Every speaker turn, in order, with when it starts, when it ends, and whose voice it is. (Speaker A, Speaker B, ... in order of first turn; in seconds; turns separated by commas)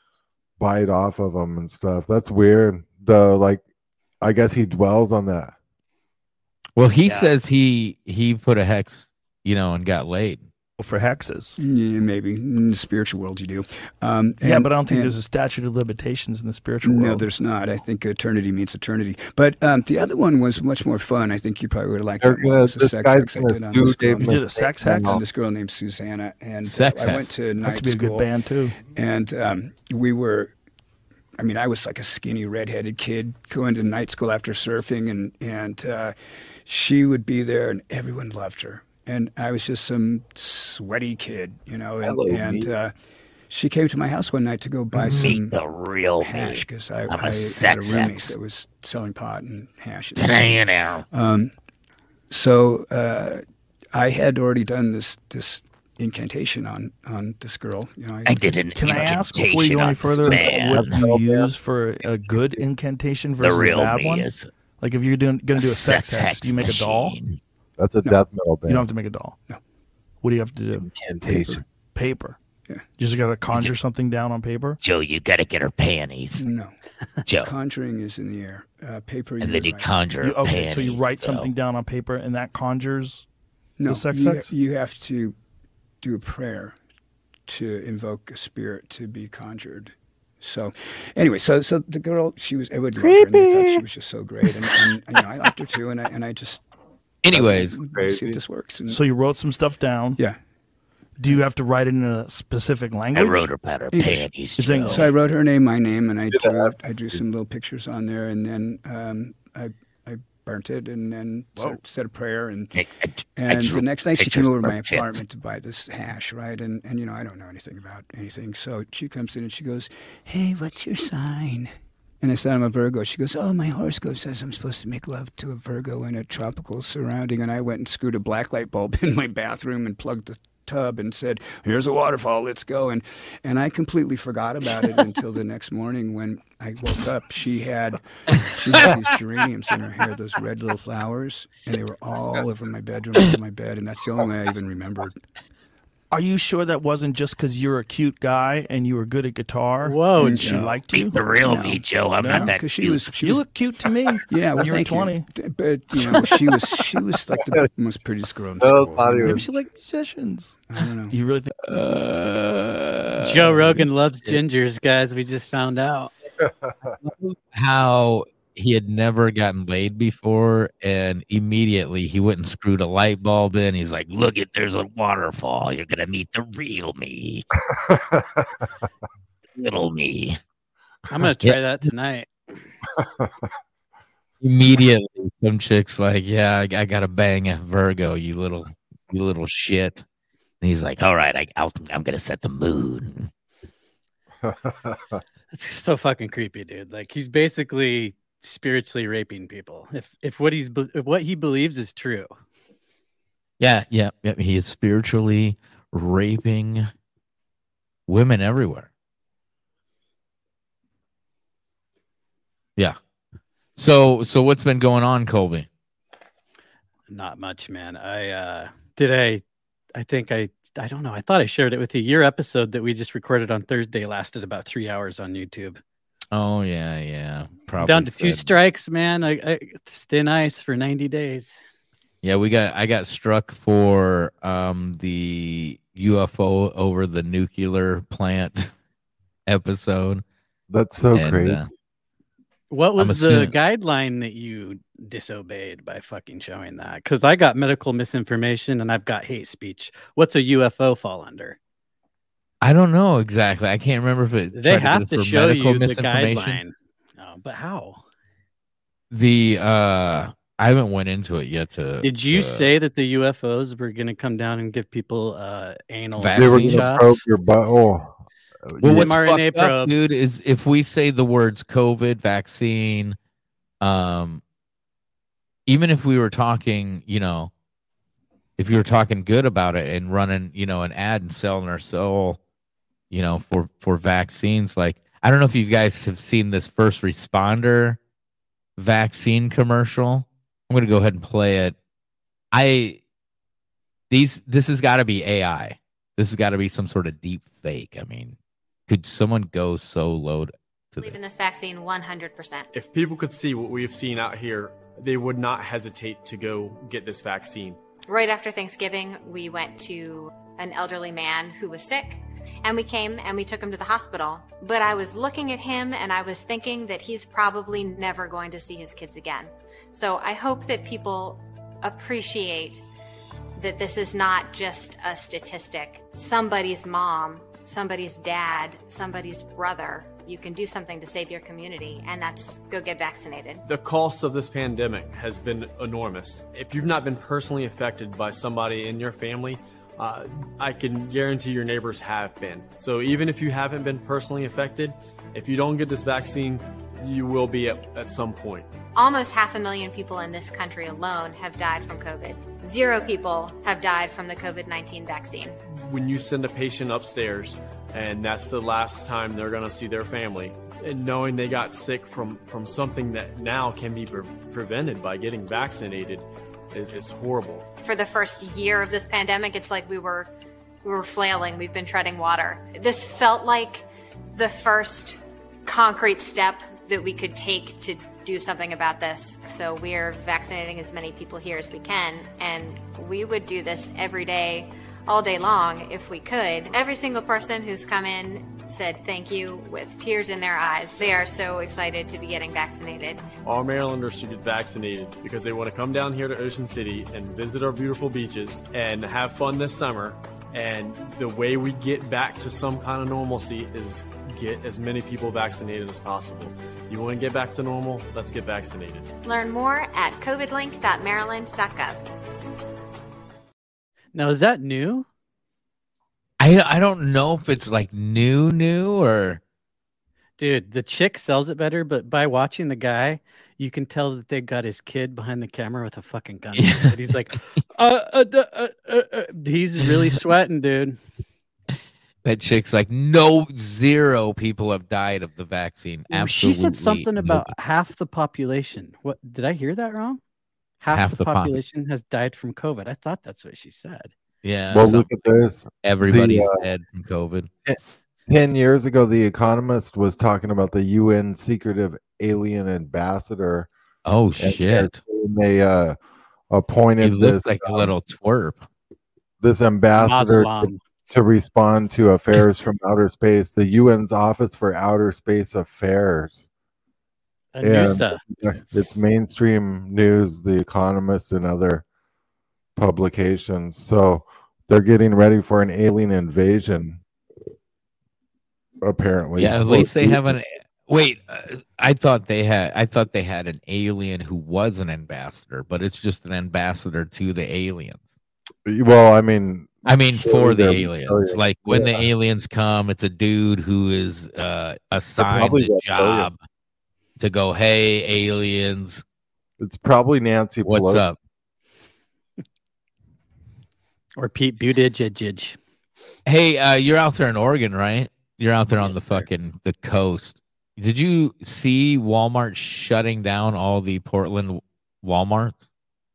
Speaker A: 0.6-3.6, Speaker A: 4.2-5.5, Speaker B: 6.8-10.5, Speaker C: 10.8-11.5, Speaker D: 11.6-15.1, Speaker C: 14.4-17.3, Speaker D: 16.9-28.3, Speaker A: 22.2-25.2, Speaker C: 24.2-25.2, Speaker B: 26.6-27.3, Speaker C: 27.6-28.8, Speaker D: 28.9-30.5, Speaker D: 31.4-36.1, Speaker D: 36.7-42.9, Speaker A: 42.0-42.6, Speaker D: 43.5-45.6, Speaker E: 45.0-48.3, Speaker B: 45.1-45.8, Speaker D: 46.2-50.6, Speaker B: 47.5-48.1, Speaker E: 50.2-50.8, Speaker B: 50.3-50.8, Speaker D: 51.1-51.5, Speaker D: 52.3-53.4, Speaker D: 53.9-58.4, Speaker E: 58.3-60.9, Speaker B: 58.3-60.8, Speaker C: 58.7-67.2, Speaker A: 60.8-61.5, Speaker B: 63.4-64.5, Speaker E: 63.4-64.4, Speaker E: 65.5-67.2, Speaker B: 65.8-67.2, Speaker A: 67.8-68.8, Speaker C: 68.0-69.4, Speaker C: 70.2-72.4, Speaker A: 70.8-71.6, Speaker C: 72.9-74.8, Speaker B: 74.8-76.4, Speaker E: 74.9-75.5, Speaker D: 76.4-76.8, Speaker D: 77.4-79.9, Speaker E: 79.4-81.5, Speaker B: 79.4-81.4, Speaker C: 80.2-83.3, Speaker D: 83.8-85.3, Speaker C: 83.8-84.5, Speaker D: 86.0-86.8, Speaker D: 87.5-96.6, Speaker E: 93.0-93.7, Speaker B: 97.2-97.8, Speaker D: 97.3-99.0, Speaker A: 97.9-98.4, Speaker C: 98.9-100.3, Speaker D: 100.2-100.5, Speaker C: 101.2-103.6, Speaker E: 103.2-105.2, Speaker B: 103.8-105.1, Speaker D: 103.9-104.3, Speaker C: 104.5-105.1, Speaker D: 104.9-112.7, Speaker A: 106.4-106.7, Speaker D: 113.4-145.2, Speaker E: 113.4-115.2, Speaker B: 113.5-115.0, Speaker C: 146.1-155.3, Speaker F: 149.9-150.5, Speaker D: 150.1-150.7, Speaker E: 150.9-153.1, Speaker D: 152.3-153.5, Speaker D: 154.3-159.4, Speaker C: 156.0-156.4, Speaker A: 158.6-159.4, Speaker C: 159.2-161.5, Speaker D: 160.7-161.1, Speaker B: 161.7-164.4, Speaker F: 163.2-166.1, Speaker A: 166.4-166.7, Speaker B: 167.0-177.4, Speaker A: 177.7-178.5, Speaker B: 179.6-180.3, Speaker F: 181.1-182.7, Speaker A: 183.0-183.3, Speaker B: 184.4-190.1, Speaker B: 190.6-193.3, Speaker A: 194.4-195.2, Speaker F: 195.5-202.3, Speaker B: 203.6-206.9, Speaker B: 208.1-208.9, Speaker B: 213.8-215.7, Speaker F: 217.1-219.4, Speaker F: 220.0-225.8, Speaker B: 226.3-228.6, Speaker F: 227.8-231.6, Speaker B: 232.2-238.7, Speaker B: 239.5-240.2, Speaker A: 240.7-241.6, Speaker B: 241.1-241.7, Speaker F: 242.7-251.6, Speaker B: 243.0-243.6, Speaker B: 252.6-256.6, Speaker F: 254.6-258.0, Speaker B: 259.1-262.7, Speaker F: 262.0-267.2, Speaker B: 266.2-267.1, Speaker A: 266.4-268.2, Speaker A: 268.7-269.1, Speaker B: 268.8-273.2, Speaker F: 268.9-270.0, Speaker B: 273.8-274.4, Speaker B: 275.7-277.5, Speaker B: 278.6-282.4, Speaker B: 283.1-288.0, Speaker B: 288.8-291.8, Speaker B: 292.5-293.0, Speaker B: 294.1-301.2, Speaker G: 301.0-302.7, Speaker H: 302.7-307.8, Speaker G: 308.1-322.8, Speaker G: 323.6-333.6, Speaker H: 333.7-348.7, Speaker G: 348.9-355.6, Speaker H: 355.8-367.6, Speaker G: 367.8-370.3, Speaker G: 370.8-393.2, Speaker H: 393.4-409.1, Speaker G: 409.2-412.0, Speaker F: 414.1-415.1, Speaker B: 416.4-419.4, Speaker F: 420.4-431.0, Speaker B: 426.5-426.9, Speaker B: 429.9-430.2, Speaker B: 432.2-437.5, Speaker F: 436.1-440.2, Speaker F: 440.8-444.1, Speaker B: 440.9-441.6, Speaker B: 444.4-445.3, Speaker A: 444.7-446.6, Speaker B: 445.8-447.5, Speaker A: 447.6-453.7, Speaker B: 454.1-455.0, Speaker A: 454.4-456.0, Speaker A: 456.5-457.9, Speaker B: 457.0-458.6, Speaker A: 459.4-466.4, Speaker F: 460.0-460.8, Speaker F: 467.5-468.2, Speaker A: 467.6-471.9, Speaker A: 472.8-477.0, Speaker A: 478.8-480.2, Speaker B: 479.4-488.1, Speaker A: 488.7-492.1, Speaker B: 489.9-496.4, Speaker A: 495.2-496.3, Speaker B: 497.2-499.0, Speaker A: 499.6-501.1, Speaker B: 500.6-501.2, Speaker F: 504.2-505.6, Speaker B: 506.3-515.6, Speaker A: 508.8-509.2